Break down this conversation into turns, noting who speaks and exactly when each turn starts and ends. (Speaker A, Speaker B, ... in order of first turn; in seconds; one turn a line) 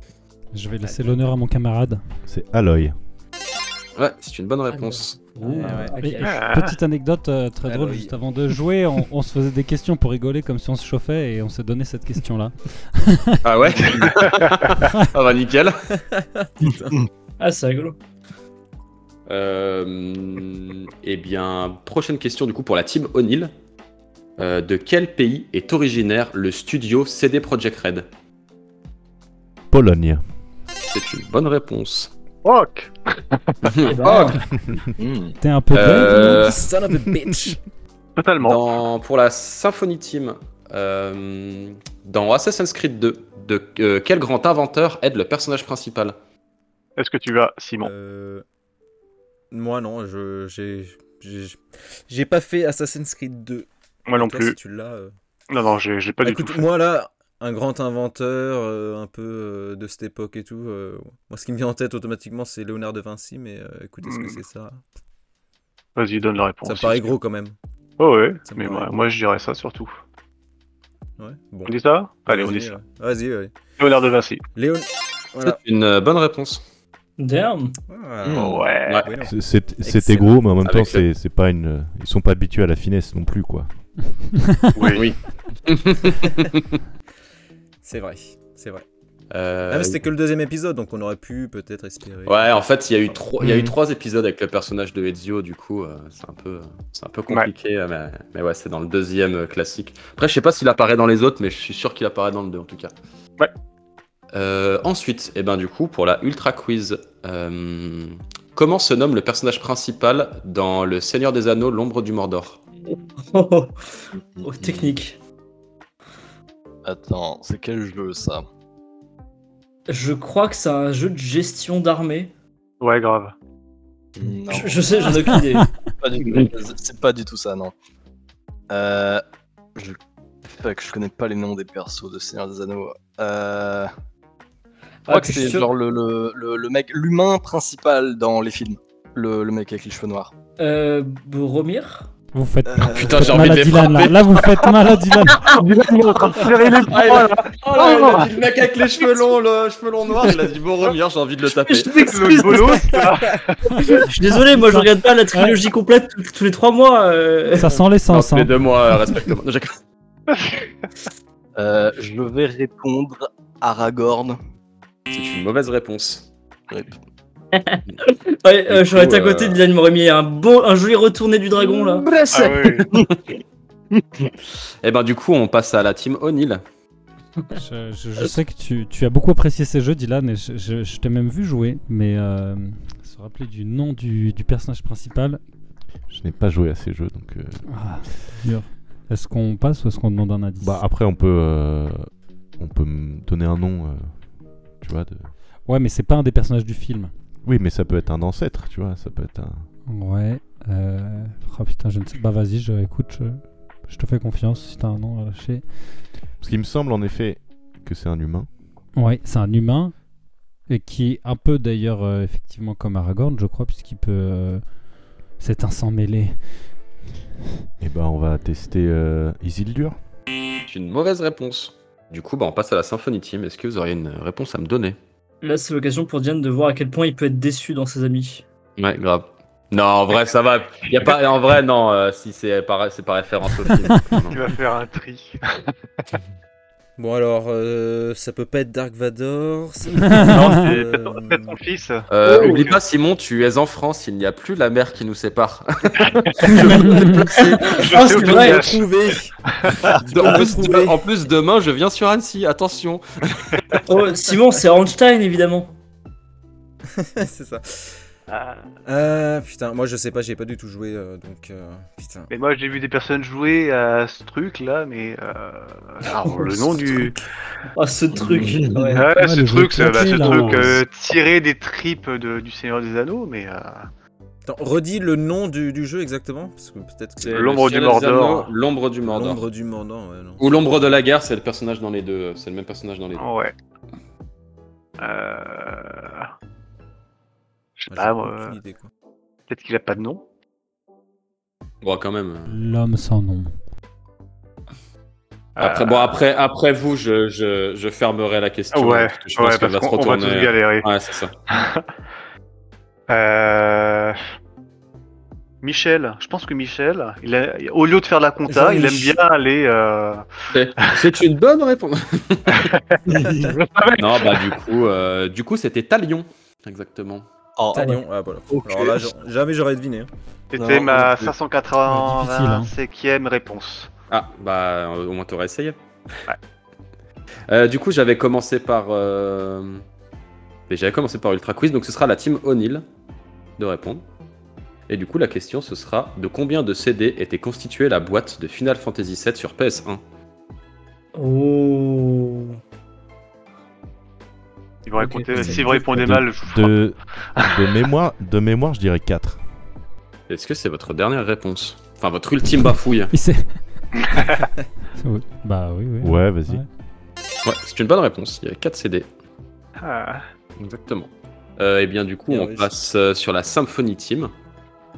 Speaker A: 0.5-2.0
Speaker B: 0.8-1.3
Speaker C: 2.3-3.0
Speaker D: 4.0-5.2
Speaker E: 4.7-6.4
Speaker B: 5.6-6.0
Speaker A: 6.0-13.5
Speaker F: 6.2-6.8
Speaker B: 7.7-8.2
Speaker D: 13.4-15.8
Speaker F: 14.0-14.5
Speaker B: 16.0-17.0
Speaker E: 17.4-18.0
Speaker D: 19.3-23.5
Speaker D: 24.4-28.1
Speaker C: 29.7-30.3
Speaker D: 30.9-32.1
Speaker F: 32.4-33.5
Speaker D: 33.6-34.5
Speaker E: 33.9-34.4
Speaker G: 35.0-35.4
Speaker A: 35.4-36.6
Speaker D: 35.7-36.6
Speaker B: 35.9-37.6
Speaker F: 38.2-38.7
Speaker D: 38.4-46.2
Speaker F: 47.0-47.9
Speaker B: 47.8-48.5
Speaker B: 49.5-55.1
Speaker F: 54.1-54.6
Speaker F: 55.5-56.7
Speaker B: 56.2-64.8
Speaker F: 64.0-64.4
Speaker F: 66.0-67.2
Speaker B: 66.6-67.6
Speaker F: 68.0-70.0
Speaker B: 68.5-68.9
Speaker B: 71.2-73.5
Speaker F: 71.7-72.8
Speaker F: 73.8-74.4
Speaker B: 74.5-75.6
Speaker D: 75.4-76.6
Speaker E: 77.2-77.8
Speaker B: 77.9-80.5
Speaker G: 78.2-78.7
Speaker F: 78.4-79.1
Speaker C: 79.2-83.7
Speaker D: 80.6-81.1
Speaker F: 84.8-85.1
Speaker D: 84.9-86.8
Speaker B: 87.8-88.8
Speaker D: 89.3-90.0
Speaker B: 89.7-92.6
Speaker D: 92.3-102.9
Speaker D: 104.3-112.6
Speaker E: 112.9-115.2
Speaker G: 114.2-115.0
Speaker G: 116.8-118.5
Speaker E: 119.9-122.3
Speaker F: 122.8-123.3
Speaker G: 124.2-125.3
Speaker E: 124.5-125.7
Speaker G: 126.0-127.7
Speaker G: 128.7-129.2
Speaker G: 130.6-133.9
Speaker E: 135.1-135.7
Speaker G: 135.1-140.3
Speaker E: 140.6-142.1
Speaker A: 142.3-145.5
Speaker G: 142.7-143.6
Speaker D: 142.9-144.6
Speaker F: 145.4-148.3
Speaker D: 146.7-152.1
Speaker E: 151.5-153.1
Speaker F: 152.0-154.0
Speaker E: 154.0-157.7
Speaker A: 154.5-155.6
Speaker A: 157.6-158.6
Speaker D: 158.1-159.8
Speaker G: 161.6-164.4
Speaker D: 165.1-166.3
Speaker G: 166.7-167.0
Speaker E: 167.5-172.1
Speaker D: 168.7-169.6
Speaker G: 171.7-173.1
Speaker F: 172.3-172.9
Speaker G: 174.0-174.3
Speaker D: 174.8-176.6
Speaker A: 177.5-185.4
Speaker C: 186.1-187.7
Speaker A: 187.7-190.8
Speaker C: 190.6-195.3
Speaker A: 195.7-197.1
Speaker C: 197.4-199.7
Speaker A: 199.9-206.0
Speaker C: 206.4-208.5
Speaker A: 208.9-210.1
Speaker A: 210.7-214.7
Speaker A: 215.3-216.8
Speaker C: 217.8-220.0
Speaker D: 220.7-225.0
Speaker E: 225.4-228.4
Speaker D: 228.8-234.4
Speaker F: 234.3-235.4
Speaker B: 237.0-241.6
Speaker A: 240.1-240.5
Speaker F: 240.2-242.8
Speaker D: 242.1-247.9
Speaker E: 242.2-242.7
Speaker F: 246.3-246.9
Speaker E: 247.3-248.7
Speaker F: 247.6-248.9
Speaker B: 248.0-249.3
Speaker B: 250.0-251.0
Speaker D: 250.1-253.8
Speaker E: 253.9-255.7
Speaker B: 256.9-258.0
Speaker F: 258.3-258.6
Speaker B: 258.9-262.3
Speaker F: 262.3-267.2
Speaker E: 266.3-266.6
Speaker E: 267.8-269.1
Speaker G: 268.2-268.9
Speaker F: 268.9-273.9
Speaker A: 269.2-270.8
Speaker B: 274.5-277.7
Speaker D: 277.2-279.4
Speaker F: 277.2-278.5
Speaker B: 279.0-280.5
Speaker D: 280.4-283.3
Speaker F: 283.2-283.6
Speaker F: 285.0-286.3
Speaker F: 287.8-288.6
Speaker B: 287.9-288.9
Speaker F: 289.5-290.2
Speaker D: 291.8-292.6
Speaker A: 292.5-293.6
Speaker F: 295.6-296.2
Speaker D: 295.6-301.3
Speaker F: 298.7-300.9
Speaker F: 301.5-301.8
Speaker F: 303.1-304.2
Speaker F: 305.6-310.3
Speaker B: 308.5-309.1
Speaker D: 310.5-312.7
Speaker F: 312.5-314.6
Speaker G: 313.1-313.5
Speaker D: 314.0-317.3
Speaker G: 317.6-319.1
Speaker B: 317.7-320.1
Speaker F: 320.5-323.9
Speaker G: 320.6-321.3
Speaker A: 321.8-322.7
Speaker D: 324.1-325.8
Speaker D: 327.5-329.8
Speaker D: 330.7-332.9
Speaker D: 333.6-334.0
Speaker D: 334.9-340.0
Speaker E: 341.2-342.6
Speaker F: 344.9-346.9
Speaker E: 345.0-345.8
Speaker C: 345.4-349.5
Speaker F: 347.4-347.7
Speaker D: 350.3-353.1
Speaker A: 353.1-353.8
Speaker F: 354.0-354.4
Speaker A: 355.0-356.7
Speaker C: 356.0-356.6
Speaker D: 357.4-359.1
Speaker F: 359.8-360.2
Speaker D: 360.6-364.3
Speaker B: 362.3-362.7